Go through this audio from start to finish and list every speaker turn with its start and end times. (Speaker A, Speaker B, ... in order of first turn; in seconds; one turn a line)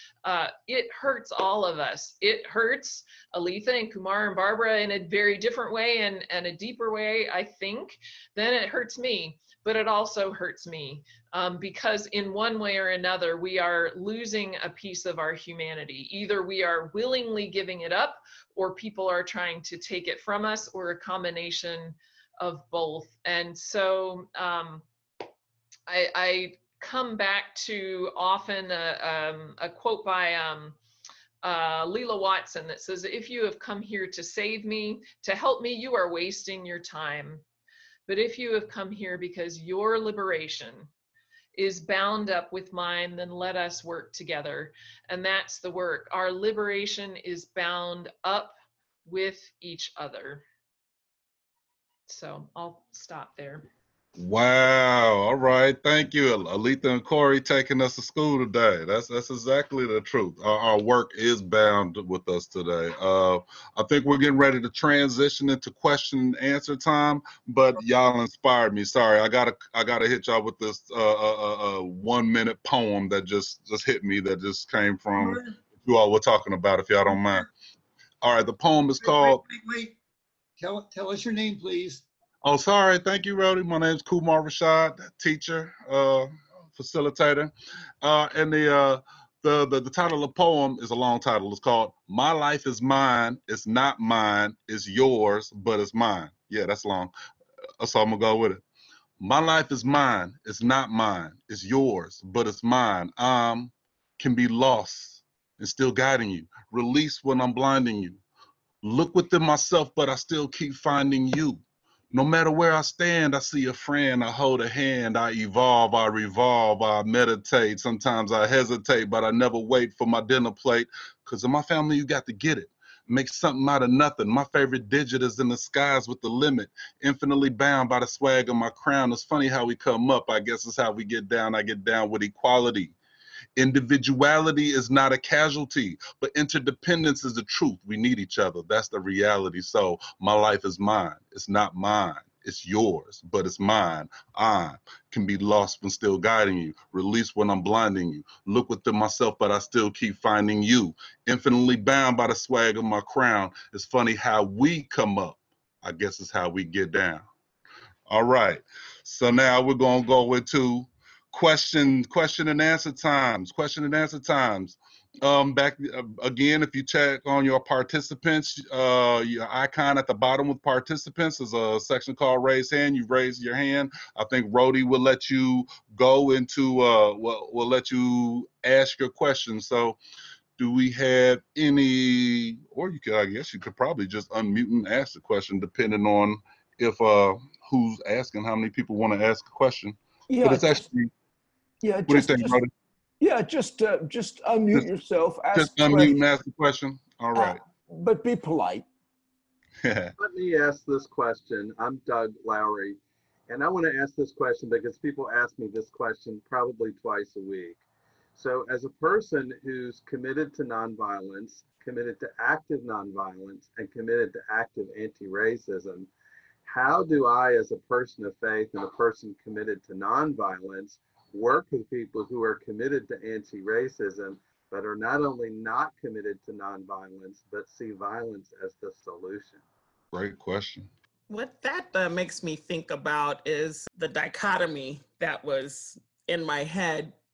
Speaker A: 0.2-24.8
Speaker A: 25.9-30.8
Speaker A: 31.4-37.4
Speaker A: 38.1-40.9
Speaker A: 41.5-50.4
Speaker A: 52.1-53.7
Speaker B: 54.2-77.5
Speaker C: 75.2-75.5
Speaker C: 77.1-77.5
Speaker B: 78.2-79.4
Speaker C: 79.0-80.0
Speaker C: 80.6-82.0
Speaker B: 82.4-87.5
Speaker B: 88.0-97.1
Speaker B: 97.8-98.6
Speaker B: 99.2-108.2
Speaker B: 108.8-132.9
Speaker B: 133.6-157.2
Speaker B: 158.1-180.0
Speaker B: 180.6-191.1
Speaker D: 190.3-190.8
Speaker D: 191.8-192.6
Speaker B: 192.1-192.7
Speaker D: 193.2-196.2
Speaker B: 195.5-197.6
Speaker D: 197.3-198.9
Speaker B: 199.8-200.1
Speaker E: 200.2-207.8
Speaker E: 208.3-216.1
Speaker E: 216.6-229.6
Speaker B: 230.1-230.9
Speaker F: 231.3-237.1